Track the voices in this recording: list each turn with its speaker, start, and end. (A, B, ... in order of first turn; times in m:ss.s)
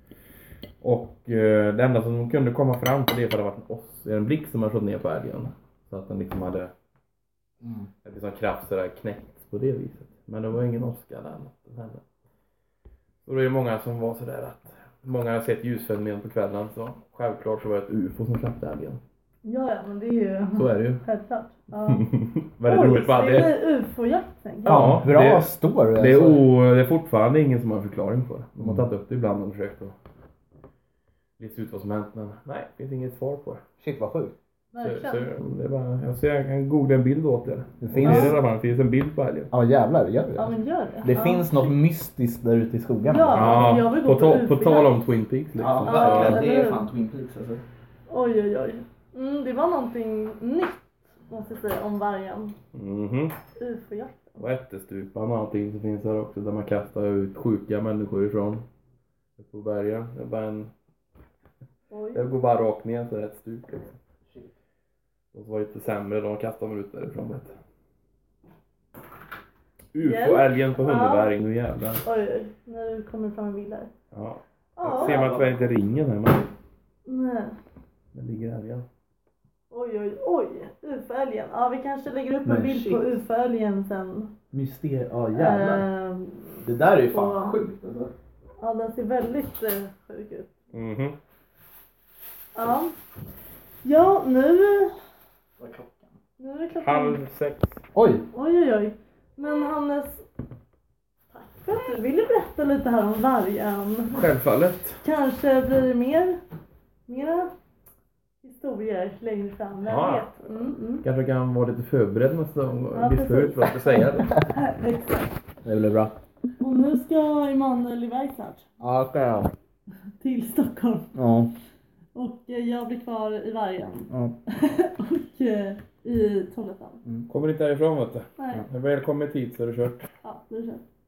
0:00.8-0:06.7 A
0:07.6-0:07.9 B
0:08.0-0:12.0 A
0:13.2-0:19.0 A
0:19.4-0:22.1 C
0:20.5-0:21.0 A
0:21.9-0:23.6 A
0:22.7-0:24.9 C
0:24.6-0:29.9 A
0:24.7-0:26.4 B
0:31.4-0:33.6 A
0:33.8-0:34.4 B
0:34.7-0:35.3 C
0:34.8-0:39.5 A
0:37.8-0:38.4 B
0:38.0-0:38.4 C
0:39.5-0:43.6 B
0:40.4-0:41.8 C
0:43.1-0:45.0 C
0:43.3-0:46.5 A
0:45.6-0:47.6 B
0:45.8-0:46.9 C
0:48.1-0:52.6 C
0:52.7-0:53.4 A
0:53.6-0:54.4 C
0:54.4-0:58.6 A
0:59.4-1:00.7 A
1:01.9-1:02.2 C
1:02.1-1:04.0 A
1:05.3-1:07.6 A
1:09.9-1:12.0 A
1:10.0-1:11.3 C
1:12.0-1:13.9 C
1:14.1-1:16.5 A
1:14.8-1:15.3 C
1:15.0-1:15.6 B
1:17.1-1:17.6 C
1:18.1-1:18.9 A
1:19.7-1:24.3 C
1:22.4-1:23.1 B
1:24.5-1:25.9 B
1:25.3-1:27.6 C
1:26.6-1:28.1 B
1:28.6-1:30.5 C
1:30.7-1:31.2 A
1:32.6-1:33.0 C
1:33.8-1:34.9 C
1:35.6-1:36.1 B
1:36.4-1:37.2 C
1:36.8-1:37.8 A
1:37.9-1:38.3 B
1:38.3-1:40.2 C
1:41.3-1:44.3 C
1:44.1-1:45.0 A
1:45.0-1:46.4 C
1:47.1-1:47.5 C
1:48.4-1:51.0 C
1:49.8-1:54.4 A
1:53.0-1:55.3 C
1:55.6-1:56.2 B
1:56.6-1:58.6 C
1:58.8-1:59.5 B
2:00.2-2:01.1 C
2:01.2-2:01.5 B
2:02.2-2:07.0 C
2:04.1-2:04.4 B
2:07.3-2:10.0 A
2:08.4-2:08.6 C
2:10.2-2:10.8 C